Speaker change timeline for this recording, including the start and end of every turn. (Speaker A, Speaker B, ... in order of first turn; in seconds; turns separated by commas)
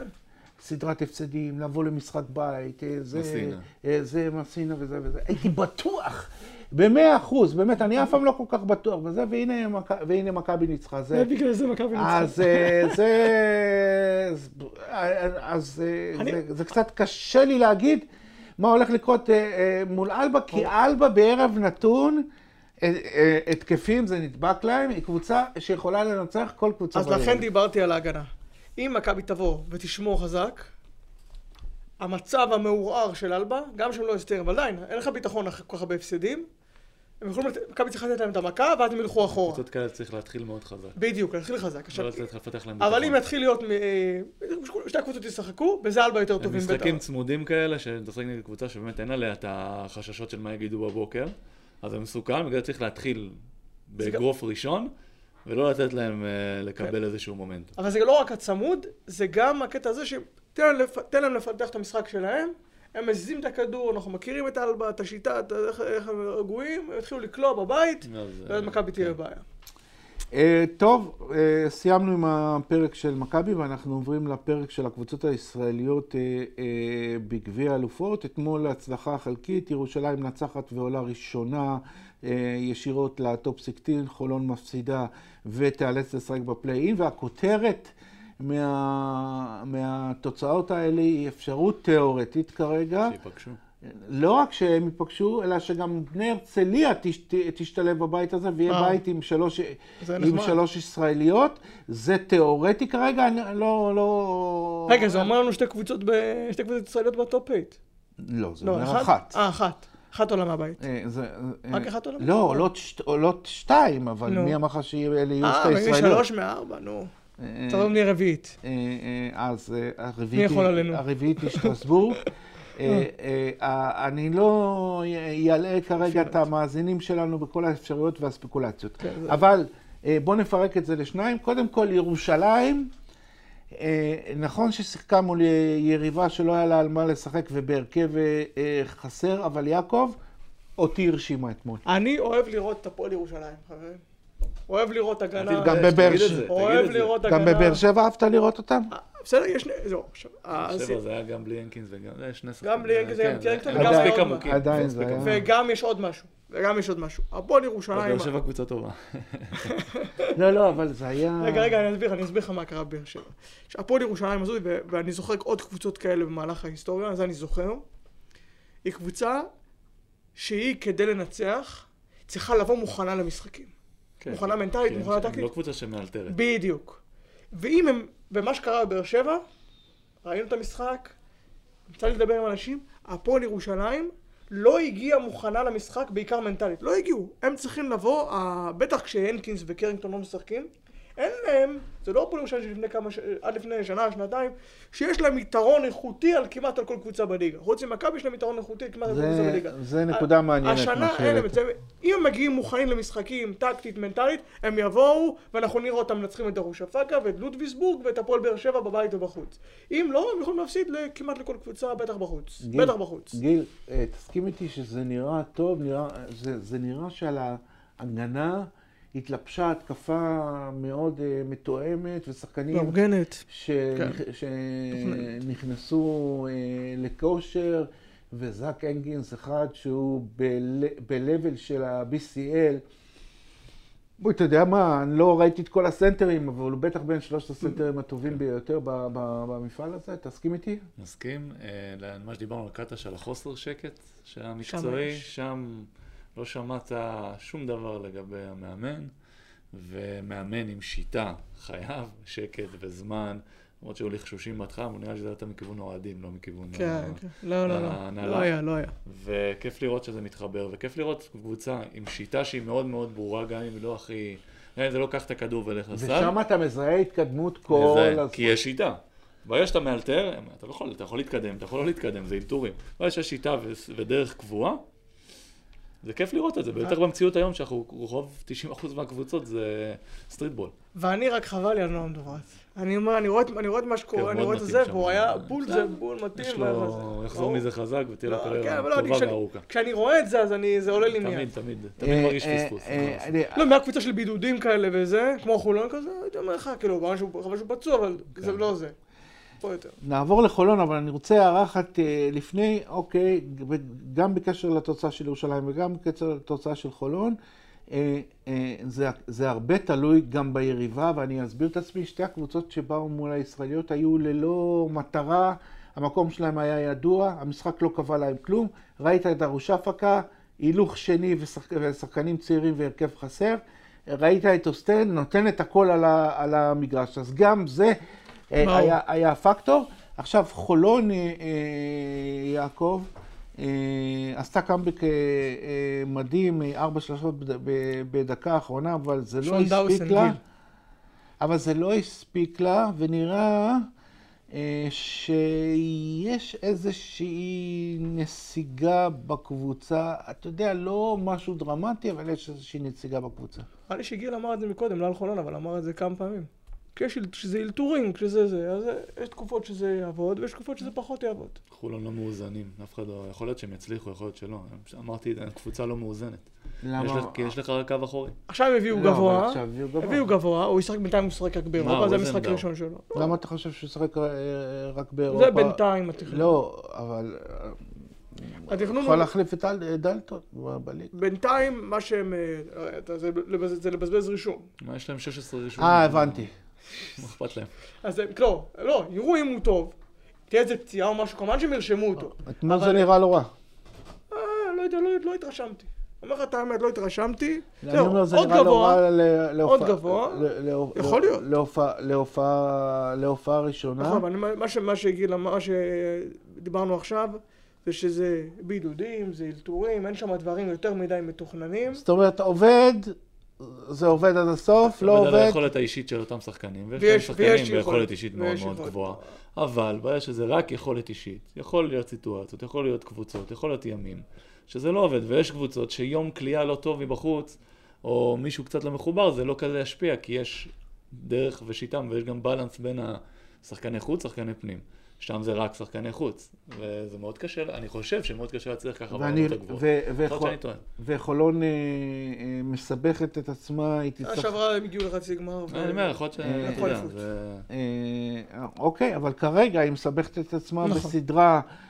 Speaker A: 0.6-11.3, Speaker B: 3.1-3.6, Speaker C: 11.1-13.0, Speaker A: 11.9-18.1, Speaker C: 16.1-16.4, Speaker A: 18.6-22.3, Speaker A: 22.8-27.4, Speaker C: 26.9-30.7, Speaker C: 32.0-36.5, Speaker C: 37.2-39.6, Speaker B: 39.2-41.0, Speaker C: 41.0-42.2, Speaker B: 41.9-43.2, Speaker C: 42.8-47.0, Speaker B: 46.4-53.4, Speaker B: 53.9-54.9, Speaker B: 55.4-57.7, Speaker C: 57.8-69.4, Speaker B: 68.0-69.1, Speaker A: 70.3-93.2, Speaker B: 93.0-93.6, Speaker A: 93.8-105.3, Speaker C: 98.7-99.0, Speaker C: 100.0-100.6, Speaker C: 104.9-107.8, Speaker A: 108.2-109.4, Speaker C: 108.6-110.8, Speaker A: 110.8-116.2, Speaker C: 111.7-112.7, Speaker C: 114.3-114.5, Speaker C: 115.4-117.1, Speaker A: 117.4-117.9, Speaker C: 117.7-118.5, Speaker A: 118.6-132.9, Speaker C: 120.3-122.3, Speaker C: 126.0-126.4, Speaker C: 129.0-129.4, Speaker A: 133.7-140.2, Speaker A: 140.8-141.8, Speaker C: 141.8-144.0, Speaker C: 144.7-147.8, Speaker B: 145.3-147.2, Speaker A: 145.6-146.5, Speaker A: 147.2-148.9, Speaker C: 148.9-151.0, Speaker B: 150.5-155.4, Speaker C: 152.6-154.5, Speaker A: 153.7-155.4, Speaker C: 155.2-158.3, Speaker B: 157.9-159.8, Speaker C: 159.6-160.3, Speaker A: 160.3-161.8, Speaker C: 161.4-167.8, Speaker C: 168.8-169.5, Speaker C: 170.3-173.7, Speaker B: 174.2-176.4, Speaker C: 174.3-175.5, Speaker C: 176.3-177.0, Speaker C: 177.5-179.4, Speaker C: 180.2-181.1, Speaker C: 181.9-213.4, Speaker A: 199.1-201.6, Speaker A: 212.6-232.8, Speaker C: 222.7-223.4, Speaker C: 224.9-225.3, Speaker A: 234.2-240.8, Speaker B: 241.0-249.1, Speaker C: 244.7-245.2, Speaker B: 249.7-258.5, Speaker C: 256.7-258.9, Speaker B: 259.0-266.3, Speaker A: 265.9-268.6, Speaker B: 267.7-274.8, Speaker B: 276.0-280.7, Speaker C: 280.9-287.6, Speaker B: 284.1-289.6, Speaker C: 288.2-291.5, Speaker B: 291.0-293.3, Speaker A: 292.0-293.6, Speaker C: 293.5-298.9, Speaker B: 298.4-298.6, Speaker C: 299.6-299.9, Speaker A: 300.0-307.4, Speaker A: 307.9-328.0, Speaker A: 328.5-340.4, Speaker C: 328.6-329.0, Speaker C: 339.4-340.4, Speaker A: 341.4-343.9, Speaker A: 344.5-353.6, Speaker C: 353.9-361.6, Speaker B: 361.7-368.4, Speaker A: 366.8-367.5, Speaker C: 368.5-373.3, Speaker A: 368.9-370.3, Speaker B: 371.8-372.6, Speaker A: 373.1-377.8, Speaker C: 375.3-376.6, Speaker A: 378.4-381.1, Speaker C: 378.7-379.3, Speaker C: 381.1-384.7, Speaker B: 384.8-386.5, Speaker A: 385.8-386.5, Speaker B: 387.0-387.7, Speaker C: 388.0-389.9, Speaker C: 390.5-393.1, Speaker A: 392.3-393.5, Speaker C: 394.3-399.0, Speaker A: 397.8-404.2, Speaker C: 399.6-401.4, Speaker C: 404.0-412.0, Speaker A: 411.9-415.6, Speaker B: 415.0-440.8, Speaker C: 417.0-419.2, Speaker A: 439.1-444.5, Speaker C: 444.2-447.2, Speaker B: 445.7-447.7, Speaker A: 446.4-447.0, Speaker A: 447.7-451.6, Speaker C: 450.8-451.1